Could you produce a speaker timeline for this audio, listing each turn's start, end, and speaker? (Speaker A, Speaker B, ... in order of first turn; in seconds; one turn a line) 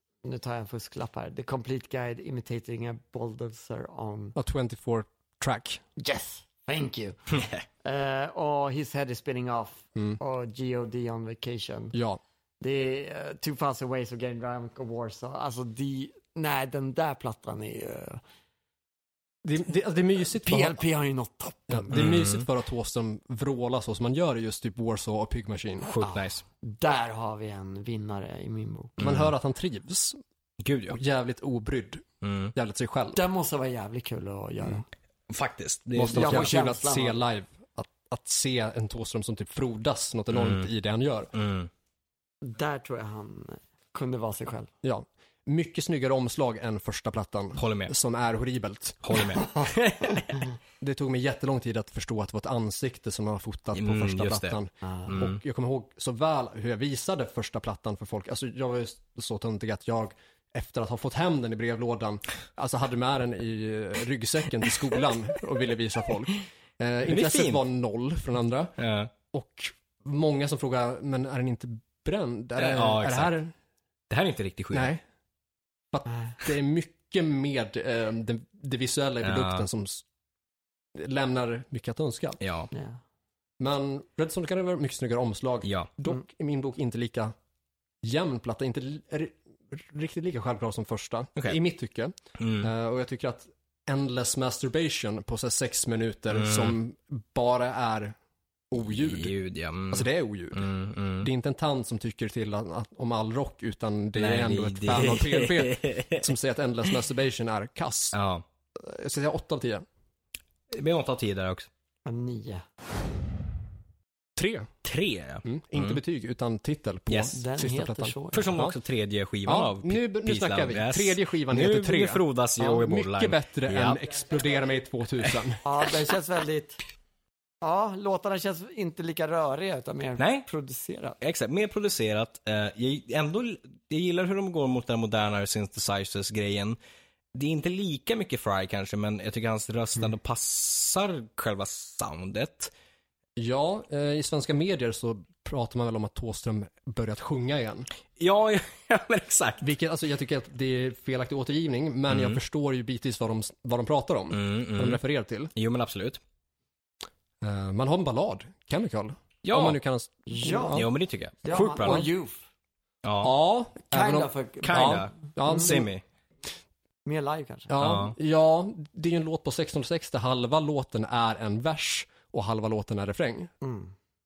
Speaker A: 0.2-4.3
Speaker B: 4.3-5.8
Speaker A: 6.0-11.9
Speaker B: 11.9-12.2
Speaker A: 12.6-18.2
Speaker B: 19.4-20.8
Speaker A: 20.2-22.0
Speaker B: 21.7-25.9
Speaker C: 21.9-22.4
Speaker C: 25.8-26.4
Speaker A: 26.0-29.0
Speaker C: 29.0-29.3
Speaker B: 29.0-30.2
Speaker C: 30.6-31.0
Speaker B: 30.9-33.2
Speaker C: 32.2-32.5
Speaker A: 33.1-34.9
Speaker C: 35.3-36.5
Speaker B: 35.9-41.3
Speaker A: 36.1-37.2
Speaker C: 40.3-40.7
Speaker C: 41.3-41.7
Speaker A: 42.4-44.7
Speaker B: 44.8-49.3
Speaker C: 47.6-47.9
Speaker C: 49.0-50.4
Speaker B: 50.8-68.7
Speaker C: 53.7-55.4
Speaker C: 67.0-67.6
Speaker C: 68.8-69.1
Speaker B: 69.3-73.5
Speaker C: 72.6-73.3
Speaker C: 74.1-74.9
Speaker B: 74.7-75.0
Speaker B: 75.9-80.0
Speaker C: 79.2-79.7
Speaker B: 80.9-82.4
Speaker C: 82.4-82.7
Speaker A: 82.7-83.0
Speaker B: 83.6-87.3
Speaker C: 85.6-85.9
Speaker B: 88.0-98.2
Speaker C: 92.4-92.7
Speaker C: 96.3-96.8
Speaker B: 98.7-99.3
Speaker C: 98.8-101.3
Speaker B: 99.9-108.2
Speaker C: 104.1-106.2
Speaker C: 108.1-108.4
Speaker B: 108.8-109.8
Speaker C: 110.7-111.7
Speaker A: 112.0-112.6
Speaker B: 114.4-114.7
Speaker C: 114.8-116.0
Speaker B: 115.4-118.8
Speaker C: 117.1-117.3
Speaker A: 117.3-118.5
Speaker C: 118.3-124.0
Speaker B: 119.5-125.6
Speaker A: 125.6-126.8
Speaker A: 127.6-131.2
Speaker C: 130.2-130.5
Speaker C: 131.2-136.8
Speaker C: 137.3-142.7
Speaker B: 143.4-147.9
Speaker C: 148.2-149.6
Speaker B: 149.6-155.5
Speaker C: 152.1-152.4
Speaker C: 154.3-155.0
Speaker C: 155.5-156.2
Speaker B: 157.4-160.9
Speaker C: 159.4-159.8
Speaker A: 160.3-160.8
Speaker C: 160.7-162.1
Speaker A: 161.4-162.4
Speaker C: 163.0-163.3
Speaker B: 163.2-165.9
Speaker A: 163.9-165.8
Speaker C: 164.6-166.0
Speaker A: 167.0-167.7
Speaker B: 167.7-173.5
Speaker C: 167.8-168.1
Speaker A: 173.6-173.9